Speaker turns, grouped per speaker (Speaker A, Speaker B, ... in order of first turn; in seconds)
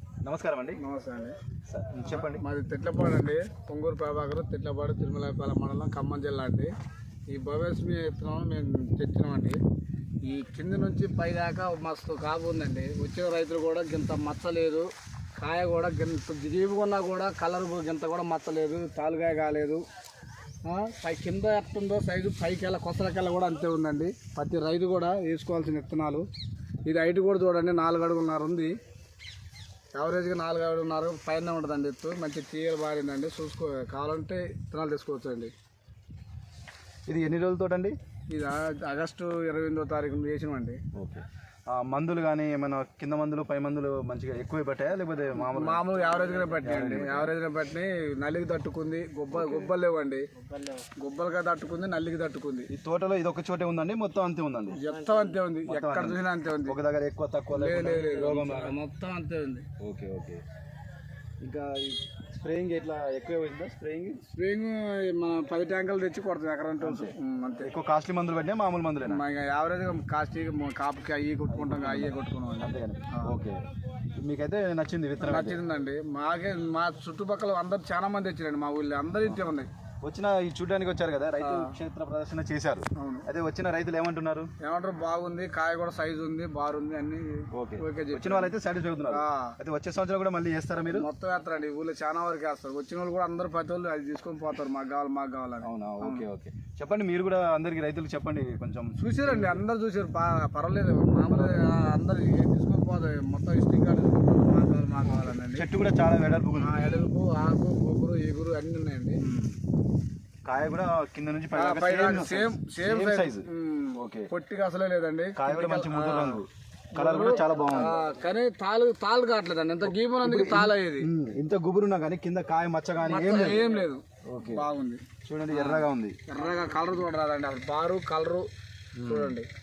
Speaker A: 0.2-0.8, 1.6-2.4, 37.1-38.0, 40.9-45.8, 46.6-47.3, 49.3-49.7, 52.7-54.8, 55.6-58.8, 59.8-60.4, 61.4-64.2, 66.8-69.2, 71.5-73.6, 74.2-75.6, 80.0-84.5, 87.5-91.1, 95.6-99.6, 101.3-101.7, 105.1-106.7, 109.2-109.6, 110.4-114.3, 115.3-118.0, 119.8-123.7, 124.2-124.7, 125.2-126.2, 128.9-129.4
Speaker B: 0.8-1.4, 2.0-6.7, 7.3-9.6, 10.2-19.8, 20.6-26.3, 26.8-28.8, 29.9-35.5, 38.3-40.8, 45.3-50.3, 50.9-52.7, 54.7-56.8, 57.5-59.7, 64.3-67.7, 69.0-73.3, 75.2-79.7, 81.4-81.8, 83.0-83.3, 84.6-88.5, 89.1-89.6, 90.9-96.3, 99.0-105.7, 106.5-109.2, 111.5-116.4, 116.9-121.1, 123.0-129.5